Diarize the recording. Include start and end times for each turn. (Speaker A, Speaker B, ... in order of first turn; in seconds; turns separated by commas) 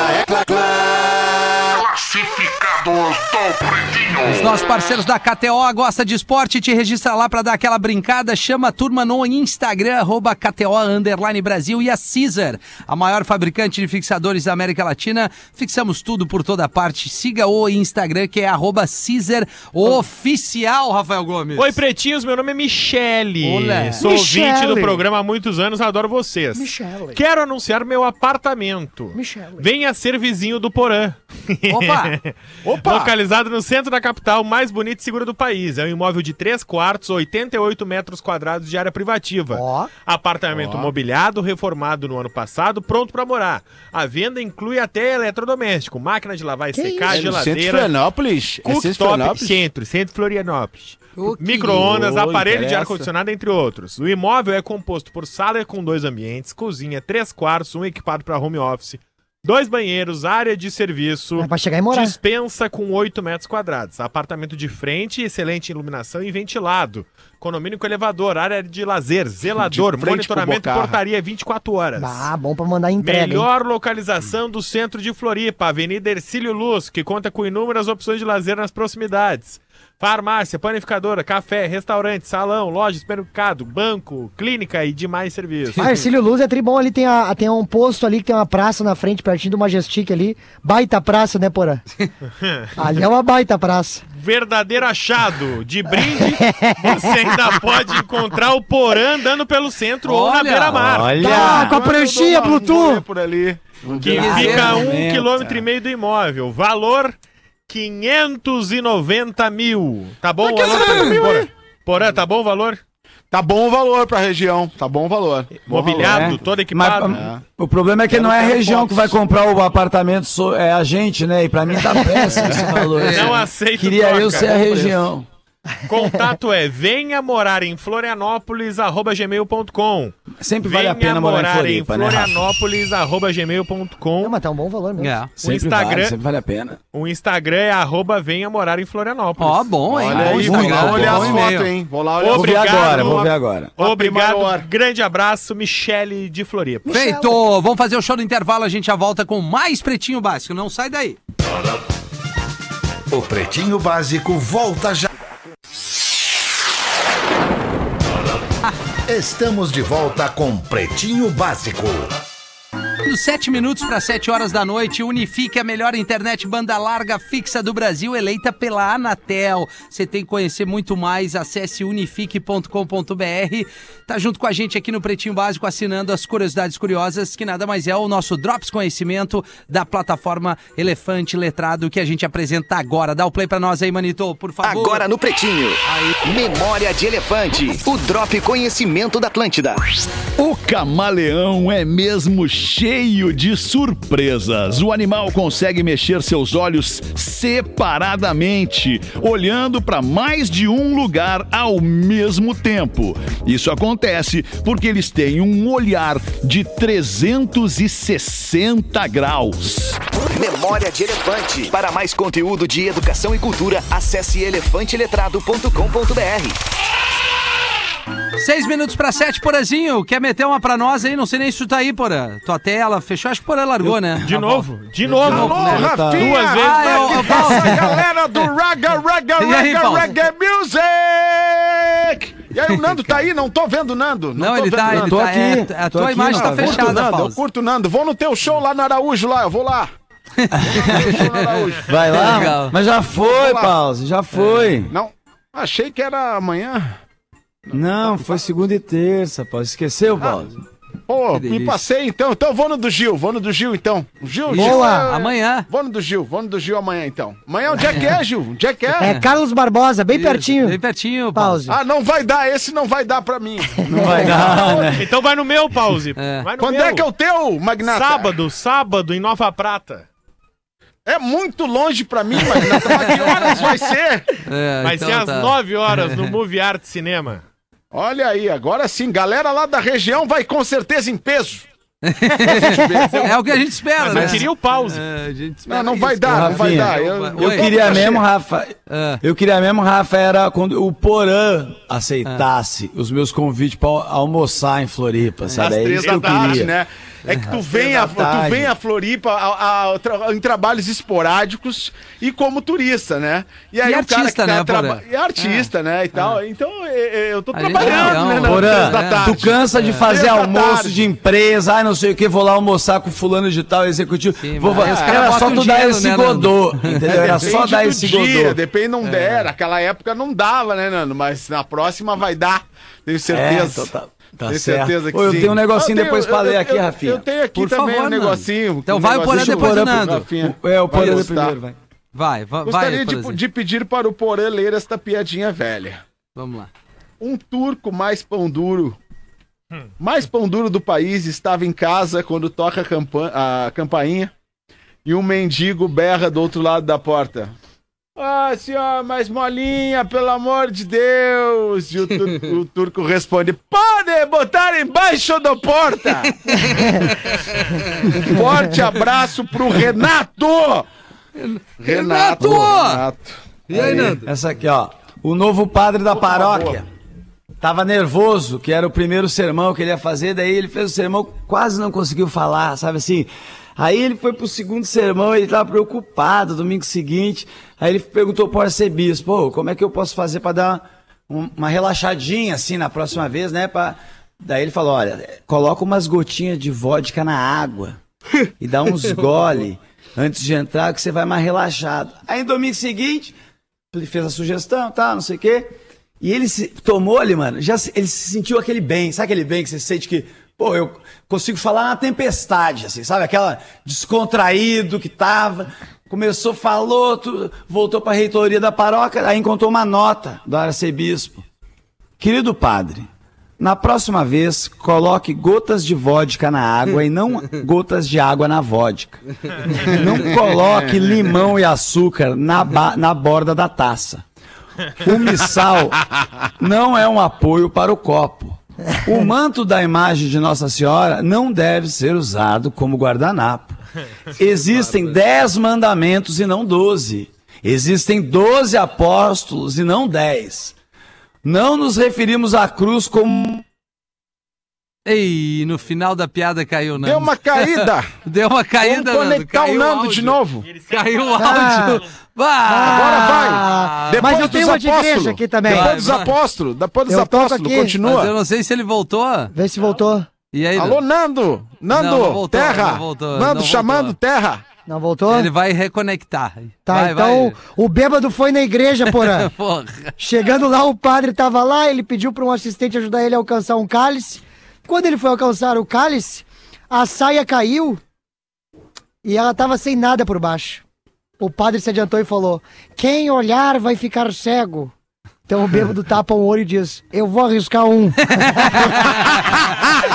Speaker A: 0.3-4.6, Speaker B: 4.2-21.8, Speaker C: 21.6-47.9, Speaker B: 23.4-24.1, Speaker D: 24.0-25.0, Speaker D: 26.6-27.2, Speaker D: 29.1-29.7, Speaker B: 31.7-32.2, Speaker E: 32.6-33.1, Speaker D: 39.5-39.9, Speaker E: 40.5-40.9, Speaker D: 46.7-47.4, Speaker E: 47.1-49.6, Speaker C: 48.6-72.3, Speaker D: 51.5-51.8, Speaker F: 51.7-52.4, Speaker E: 52.1-53.1, Speaker D: 61.4-62.2, Speaker E: 69.5-71.0, Speaker D: 72.0-73.5, Speaker C: 73.0-85.9, Speaker D: 85.8-91.8, Speaker C: 92.4-92.7, Speaker D: 92.8-94.0, Speaker C: 94.2-101.2, Speaker D: 96.1-97.1, Speaker B: 100.0-100.8, Speaker F: 100.7-101.8, Speaker D: 101.2-103.0, Speaker E: 101.2-104.6, Speaker C: 104.0-107.2, Speaker B: 104.0-104.9, Speaker F: 104.0-105.6, Speaker C: 107.7-112.8, Speaker E: 110.6-111.4, Speaker E: 113.3-116.4, Speaker C: 115.7-117.2, Speaker F: 115.9-125.3, Speaker E: 117.1-117.4, Speaker E: 118.1-119.2, Speaker E: 122.3-122.7, Speaker B: 123.0-123.4, Speaker C: 123.0-124.6, Speaker C: 125.9-134.4, Speaker F: 130.4-132.4, Speaker D: 134.2-135.2, Speaker B: 135.0-135.3, Speaker C: 135.4-136.2, Speaker F: 135.4-136.8, Speaker C: 136.9-140.5, Speaker B: 139.4-141.7, Speaker E: 139.9-143.2, Speaker F: 140.1-141.5, Speaker C: 142.2-146.9, Speaker F: 142.3-143.7, Speaker E: 143.8-144.7, Speaker D: 146.9-147.3, Speaker B: 146.9-151.2, Speaker A: 153.1-155.1, Speaker A: 159.1-162.2, Speaker B: 163.0-185.0, Speaker G: 184.6-190.0, Speaker B: 185.8-186.2, Speaker H: 190.4-210.0, Speaker G: 210.3-216.6, Speaker B: 218.4-224.7, Speaker F: 223.8-224.2, Speaker C: 224.3-227.5, Speaker E: 225.1-235.2, Speaker B: 225.2-227.9, Speaker F: 225.3-226.4, Speaker B: 229.4-230.1, Speaker B: 234.4-237.4, Speaker F: 234.9-237.0, Speaker E: 236.3-239.9, Speaker B: 240.4-241.5, Speaker F: 240.6-241.2, Speaker E: 240.6-242.3, Speaker F: 241.8-244.9, Speaker B: 242.1-242.8, Speaker E: 243.2-243.7, Speaker B: 244.3-244.8, Speaker E: 244.9-247.0, Speaker F: 247.7-250.6, Speaker E: 251.1-259.1, Speaker B: 251.3-251.8, Speaker B: 254.5-255.7, Speaker D: 254.5-255.1, Speaker B: 257.8-258.2, Speaker D: 259.0-260.8, Speaker B: 259.0-259.3, Speaker B: 260.1-261.6, Speaker D: 261.3-261.8, Speaker E: 261.7-263.8, Speaker D: 263.8-264.9, Speaker F: 263.9-265.1, Speaker C: 264.9-267.1, Speaker B: 266.2-266.4, Speaker E: 266.6-268.3, Speaker C: 267.8-270.1, Speaker E: 271.1-274.3, Speaker B: 273.2-273.5, Speaker B: 274.4-276.2, Speaker C: 274.8-277.4, Speaker E: 277.9-281.7, Speaker B: 282.0-288.1, Speaker E: 282.5-283.3, Speaker D: 282.6-283.3, Speaker C: 284.0-285.0, Speaker E: 285.7-288.2, Speaker F: 286.2-296.7, Speaker B: 288.9-289.2, Speaker B: 295.5-295.7, Speaker E: 295.6-311.0, Speaker C: 296.0-296.7, Speaker F: 297.8-298.7, Speaker B: 303.8-306.4, Speaker B: 307.5-310.0, Speaker F: 307.8-318.6, Speaker B: 314.4-317.5, Speaker E: 314.8-315.4, Speaker E: 317.3-323.9, Speaker B: 319.1-319.5, Speaker F: 323.3-327.2, Speaker E: 324.5-331.6, Speaker B: 327.5-330.3, Speaker F: 329.3-331.8, Speaker B: 330.9-331.3, Speaker B: 332.1-333.4, Speaker E: 332.6-336.0, Speaker B: 336.4-336.7, Speaker E: 337.2-339.0, Speaker E: 340.0-344.3, Speaker E: 345.1-347.5, Speaker E: 348.2-356.6, Speaker B: 356.5-358.3, Speaker E: 357.9-360.9, Speaker B: 361.4-363.0, Speaker E: 361.8-364.2, Speaker F: 362.4-362.7, Speaker B: 363.7-364.3, Speaker F: 363.7-366.9, Speaker E: 366.1-366.8, Speaker F: 367.6-388.0, Speaker F: 388.6-393.4, Speaker F: 393.9-395.7, Speaker F: 396.2-411.4, Speaker F: 412.2-413.1, Speaker F: 413.6-424.2, Speaker F: 425.0-426.1, Speaker F: 426.6-433.8, Speaker F: 434.3-440.8, Speaker F: 441.4-443.6, Speaker B: 445.1-454.7, Speaker E: 447.0-448.1, Speaker E: 448.8-450.7, Speaker C: 450.7-451.7, Speaker D: 451.4-452.0, Speaker D: 452.6-456.0, Speaker E: 452.8-458.3, Speaker B: 455.7-456.3, Speaker D: 457.1-458.0, Speaker B: 458.0-459.5, Speaker D: 459.5-460.3, Speaker B: 460.5-461.0, Speaker E: 460.8-464.6, Speaker B: 461.9-464.2, Speaker D: 464.9-465.5, Speaker B: 465.3-467.6, Speaker D: 466.9-469.5, Speaker B: 469.1-470.1, Speaker D: 470.2-478.0, Speaker D: 479.2-480.8, Speaker D: 481.4-484.9, Speaker D: 485.5-489.2, Speaker B: 488.3-489.6